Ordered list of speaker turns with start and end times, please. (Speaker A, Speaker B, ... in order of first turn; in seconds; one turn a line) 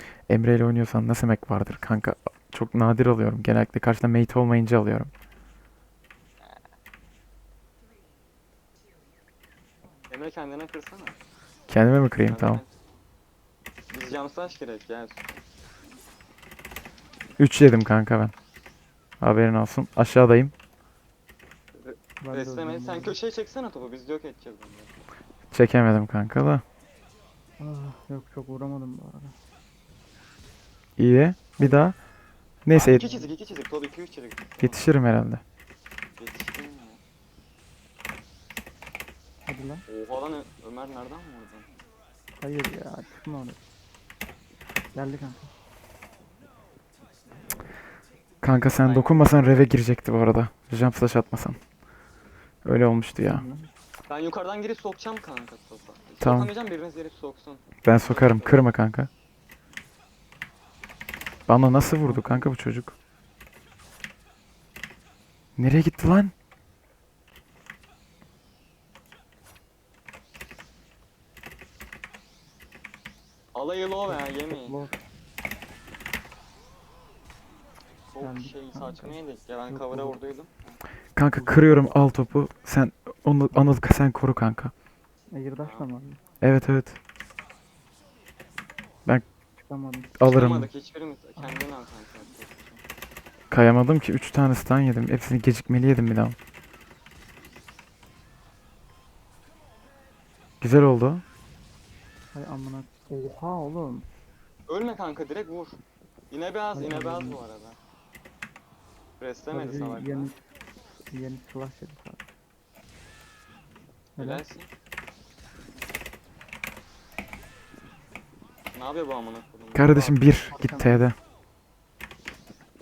Speaker A: 0.3-5.1
Speaker B: 10.1-11.2
Speaker A: 11.7-12.6
Speaker B: 12.2-12.8
Speaker B: 13.9-15.4
Speaker A: 17.4-18.3
Speaker A: 19.2-20.5
Speaker B: 21.8-24.9
Speaker C: 22.2-23.2
Speaker A: 25.5-26.6
Speaker C: 27.6-29.4
Speaker A: 31.0-32.0
Speaker A: 32.6-33.0
Speaker B: 32.7-34.9
Speaker C: 32.9-33.3
Speaker A: 34.6-35.4
Speaker B: 36.2-37.0
Speaker C: 39.5-39.8
Speaker B: 39.9-41.7
Speaker C: 42.4-43.6
Speaker C: 44.9-45.5
Speaker A: 48.4-51.6
Speaker B: 48.6-49.7
Speaker A: 52.6-53.4
Speaker C: 53.2-53.7
Speaker B: 54.1-58.7
Speaker A: 56.2-56.5
Speaker A: 57.8-59.1
Speaker A: 61.5-62.9
Speaker C: 62.0-62.5
Speaker A: 65.6-66.3
Speaker B: 73.5-74.8
Speaker C: 74.1-75.0
Speaker B: 78.1-80.8
Speaker C: 78.2-80.2
Speaker A: 81.2-84.7
Speaker C: 81.4-82.1
Speaker C: 85.3-86.2
Speaker A: 86.4-87.0
Speaker C: 89.6-90.1
Speaker A: 90.2-90.7
Speaker B: 90.2-92.8
Speaker C: 91.4-91.6
Speaker A: 93.5-96.4
Speaker A: 100.6-101.2
Speaker C: 102.3-104.1
Speaker B: 104.7-105.8
Speaker B: 106.3-107.8
Speaker C: 106.7-107.4
Speaker B: 109.2-110.3
Speaker C: 109.5-112.3
Speaker B: 114.2-114.7
Speaker B: 118.7-120.4
Speaker A: 119.7-121.2
Speaker C: 120.5-121.0